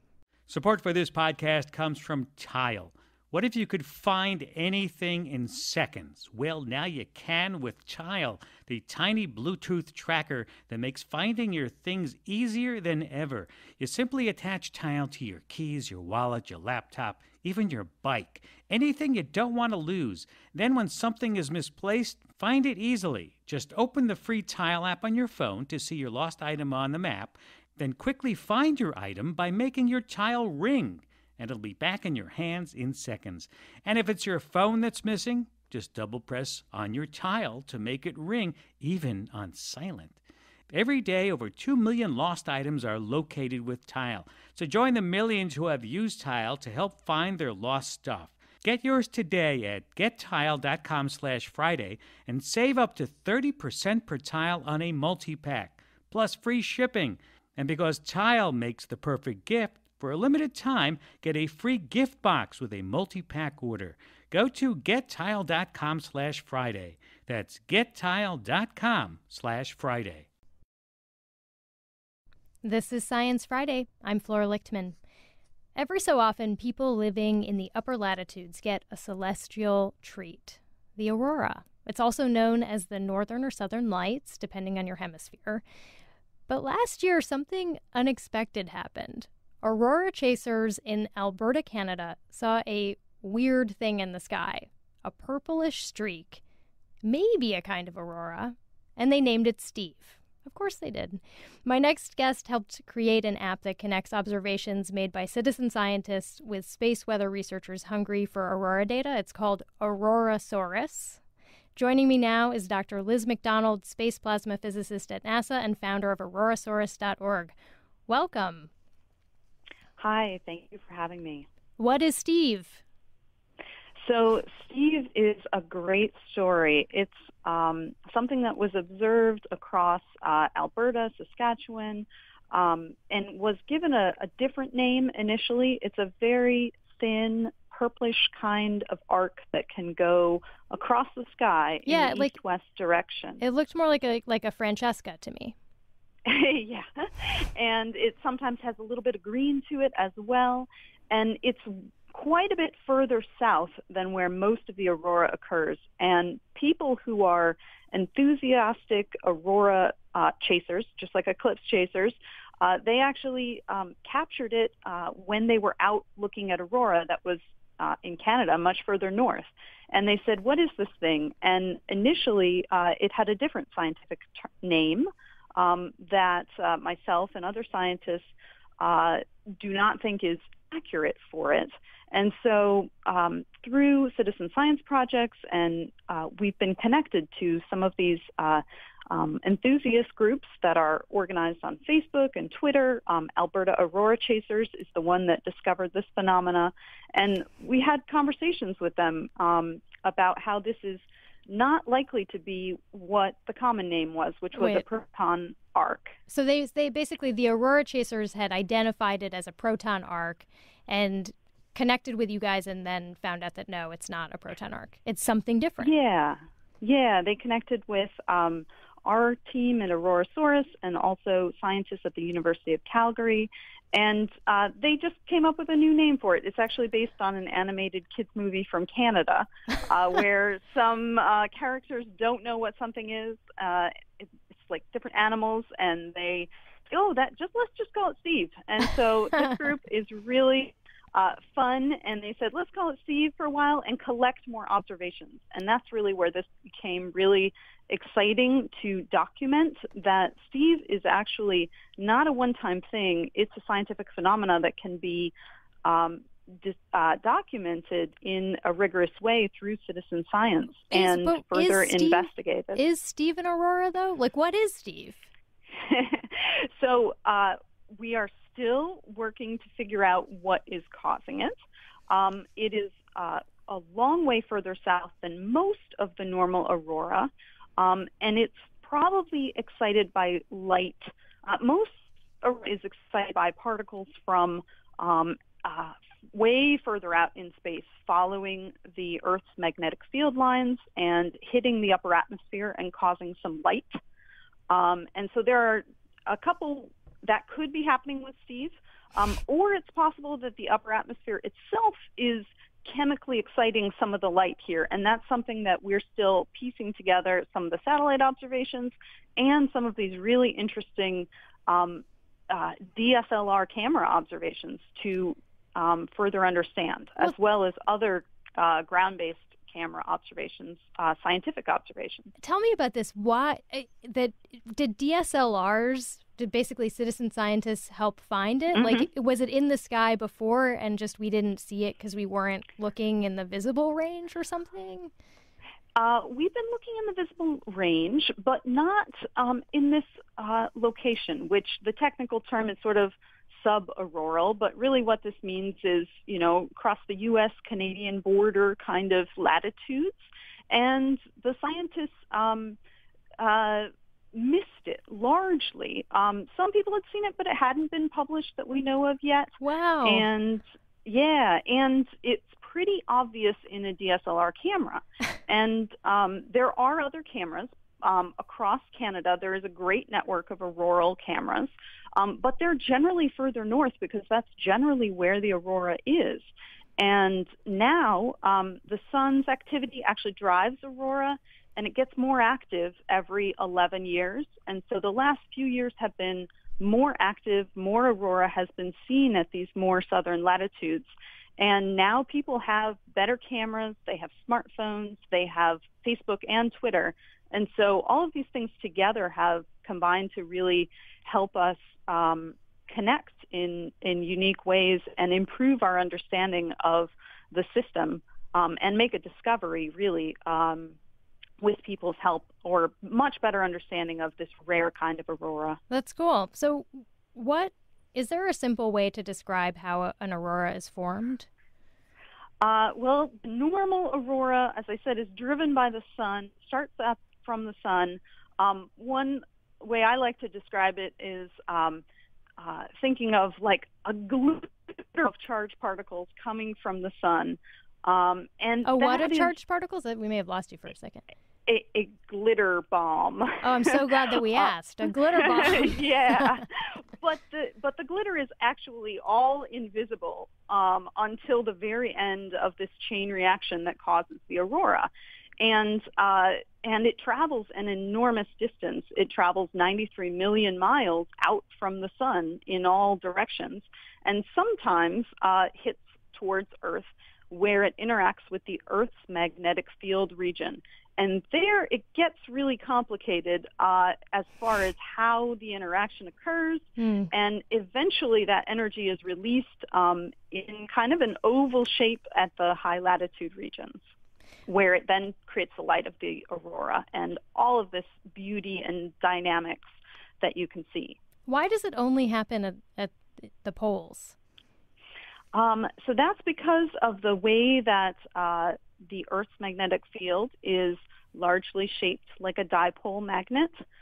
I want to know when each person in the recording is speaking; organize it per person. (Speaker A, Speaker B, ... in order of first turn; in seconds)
Speaker A: 0.5-40.2, 40.7-70.3
Speaker B: 72.6-75.0, 75.7-85.6, 86.5-96.4, 97.0-111.2, 111.8-117.5, 118.1-118.7, 121.8-122.8, 141.8-142.4, 143.4-145.5, 204.5-204.8, 206.3-215.9, 260.9-265.3, 322.4-335.1, 359.6-360.3, 415.9-421.5, 438.8-441.2, 443.6-446.6, 477.0-477.3, 491.5-494.4
Speaker C: 120.0-121.5, 124.0-143.4, 146.2-206.1, 215.8-255.3, 255.8-262.8, 265.8-271.6, 272.1-294.0, 294.7-322.3, 328.7-329.1, 335.9-352.8, 353.4-411.0, 411.6-415.8, 422.6-432.0, 432.6-439.5, 441.7-446.6, 447.2-455.1, 455.6-484.0, 484.7-489.9, 490.4-491.2, 495.5-503.8